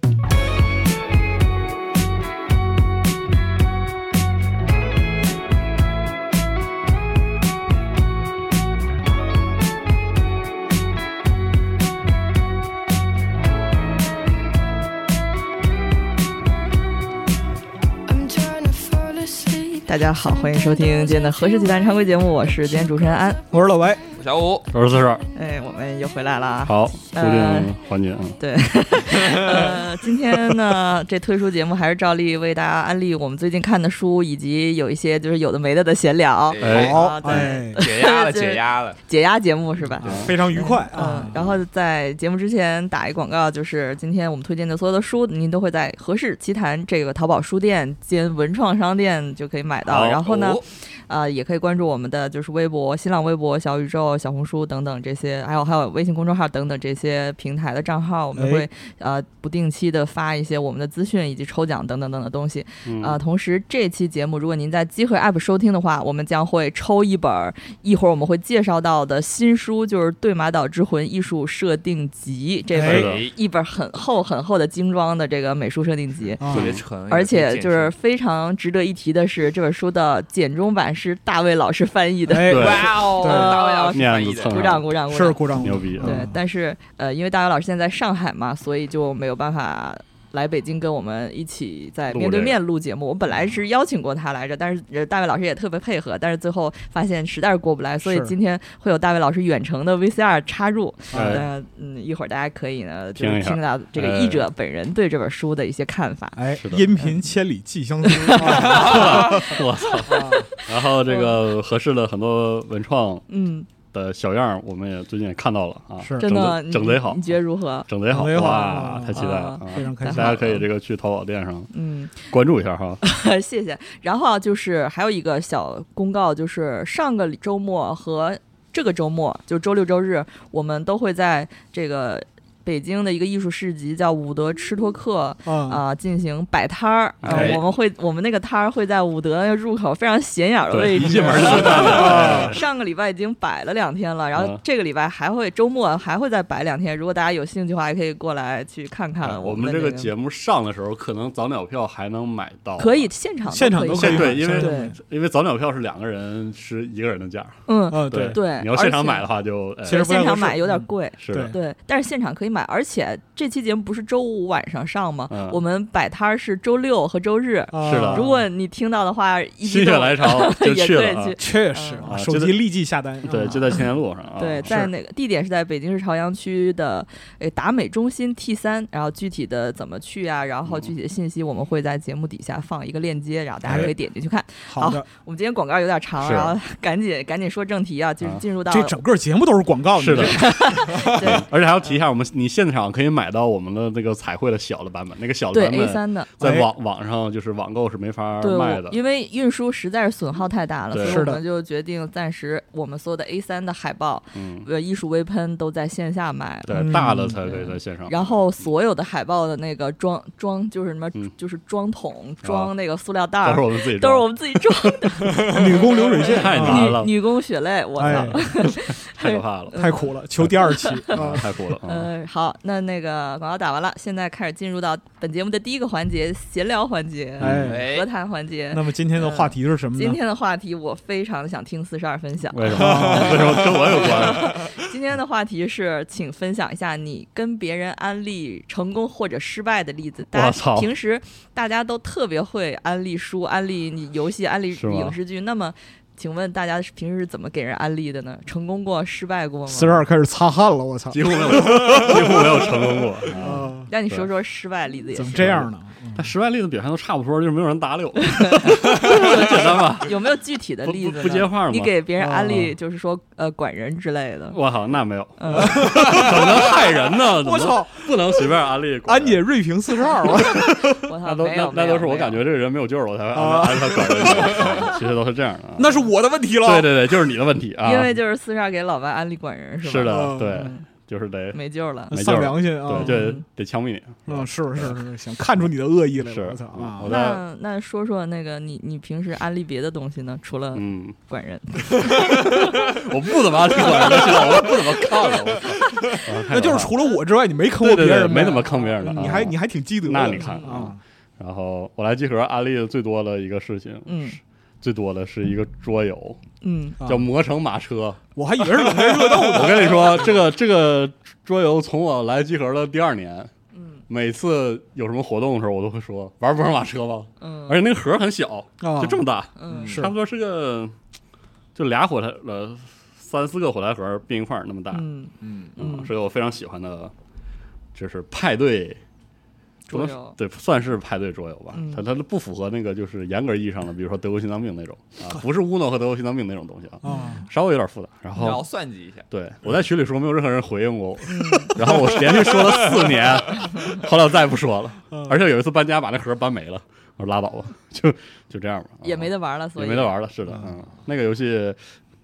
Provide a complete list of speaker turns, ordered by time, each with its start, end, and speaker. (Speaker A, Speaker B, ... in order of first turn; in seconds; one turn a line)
Speaker A: 18.1-21.9
Speaker B: 19.9-23.4
Speaker A: 22.6-22.9
Speaker C: 23.5-24.0
Speaker D: 24.1-24.7
Speaker E: 24.7-25.2
Speaker B: 25.3-27.7
Speaker E: 26.6-28.4
Speaker B: 28.4-76.5
Speaker D: 29.1-29.6
Speaker D: 36.5-39.0
Speaker E: 36.6-37.5
Speaker C: 36.7-37.8
Speaker E: 40.0-41.5
Speaker C: 40.0-41.5
Speaker E: 49.9-50.6
Speaker C: 58.4-58.7
Speaker E: 62.8-63.2
Speaker C: 72.7-73.1
Speaker E: 72.8-73.2
Speaker D: 72.8-73.3
Speaker C: 76.4-76.7
Speaker E: 76.5-76.8
Speaker D: 76.5-77.9
Speaker B: 77.1-106.4
Speaker C: 82.3-83.6
Speaker E: 82.5-85.0
Speaker D: 82.5-84.7
Speaker C: 85.1-86.4
Speaker E: 85.5-86.3
Speaker E: 92.1-92.6
Speaker C: 98.0-98.3
Speaker C: 101.1-101.5
Speaker E: 101.1-101.5
Speaker E: 103.1-104.5
Speaker C: 106.3-110.5
Speaker E: 106.5-107.0
Speaker B: 108.1-109.4
Speaker E: 108.5-113.2
Speaker B: 110.1-111.4
Speaker B: 113.3-113.7
Speaker E: 113.9-121.7
Speaker C: 116.0-116.5
Speaker B: 116.2-117.9
Speaker C: 118.1-120.6
Speaker B: 118.4-120.6
Speaker B: 121.7-122.3
Speaker E: 122.3-123.0
Speaker B: 123.0-150.1
Speaker C: 135.4-135.8
Speaker E: 137.2-137.6
Speaker C: 137.3-137.6
Speaker E: 140.7-142.6
Speaker C: 141.4-142.6
Speaker E: 144.3-144.6
Speaker E: 149.2-153.1
Speaker B: 152.8-154.9
Speaker C: 153.4-154.9
Speaker E: 153.9-160.4
Speaker B: 157.7-159.3
Speaker C: 157.9-158.4
Speaker C: 159.8-161.6
Speaker B: 159.8-172.1
Speaker E: 161.2-161.6
Speaker E: 165.3-165.6
Speaker C: 167.7-168.5
Speaker E: 167.8-168.3
Speaker E: 169.6-171.4
Speaker C: 171.4-173.9
Speaker E: 172.0-172.6
Speaker E: 173.2-174.8
Speaker B: 174.4-189.0
Speaker C: 174.7-174.9
Speaker E: 180.7-180.9
Speaker E: 183.6-183.9
Speaker C: 183.7-183.9
Speaker C: 184.7-185.0
Speaker E: 186.2-186.6
Speaker C: 188.7-190.9
Speaker E: 189.9-199.0
Speaker B: 190.1-192.0
Speaker B: 195.5-196.3
Speaker C: 196.4-196.7
Speaker B: 198.4-220.1
Speaker E: 200.9-201.3
Speaker C: 201.0-201.4
Speaker E: 204.3-204.7
Speaker E: 206.6-208.2
Speaker C: 206.7-207.5
Speaker E: 212.4-212.7
Speaker E: 213.4-217.1
Speaker C: 215.4-217.0
Speaker C: 218.0-218.4
Speaker E: 218.0-219.8
Speaker C: 219.7-221.4
Speaker E: 220.4-222.1
Speaker B: 220.6-221.0
Speaker B: 221.8-250.0
Speaker E: 227.4-227.8
Speaker C: 227.4-227.9
Speaker D: 227.6-228.1
Speaker C: 228.7-230.2
Speaker E: 232.5-234.7
Speaker C: 232.7-233.6
Speaker E: 240.3-240.9
Speaker E: 244.7-245.2
Speaker C: 249.7-253.9
Speaker E: 251.1-254.3
Speaker B: 253.8-255.4
Speaker C: 255.1-256.3
Speaker E: 255.3-260.1
Speaker B: 258.2-264.6
Speaker E: 260.8-262.0
Speaker C: 262.2-262.7
Speaker E: 264.5-269.4
Speaker B: 265.4-265.9
Speaker C: 265.6-268.5
Speaker D: 265.9-266.2
Speaker C: 269.1-271.1
Speaker E: 270.3-278.2
Speaker B: 270.4-272.4
Speaker C: 273.3-275.0
Speaker C: 275.8-277.1
Speaker B: 277.8-280.8
Speaker E: 279.8-281.6
Speaker C: 280.1-280.7
Speaker B: 281.5-282.1
Speaker E: 282.1-285.0
Speaker C: 282.1-283.3
Speaker B: 282.9-283.4
Speaker C: 284.3-287.1
Speaker E: 285.6-287.4
Speaker B: 287.0-292.7
Speaker E: 290.7-291.2
Speaker E: 291.8-297.0
Speaker D: 294.0-294.3
Speaker C: 296.5-301.0
Speaker E: 297.6-306.4
Speaker B: 304.1-304.4
Speaker B: 306.6-307.0
Speaker C: 307.0-307.3
Speaker E: 307.0-308.2
Speaker C: 308.3-310.3
Speaker D: 309.0-310.1
Speaker E: 309.2-313.5
Speaker B: 313.7-314.0
Speaker E: 314.1-320.9
Speaker B: 317.4-317.8
Speaker C: 318.8-320.1
Speaker B: 319.6-319.9
Speaker D: 319.7-320.1
Speaker E: 321.7-325.1
Speaker B: 324.9-326.1
Speaker D: 325.4-325.7
Speaker E: 325.8-327.1
Speaker E: 327.9-329.0
Speaker B: 329.9-330.4
Speaker E: 329.9-338.6
Speaker B: 331.7-332.0
Speaker C: 337.0-337.5
Speaker B: 337.0-337.4
Speaker D: 338.4-339.2
Speaker E: 339.3-351.8
Speaker B: 341.2-341.8
Speaker D: 341.9-343.3
Speaker C: 345.1-345.4
Speaker B: 349.0-350.2
Speaker C: 350.5-350.8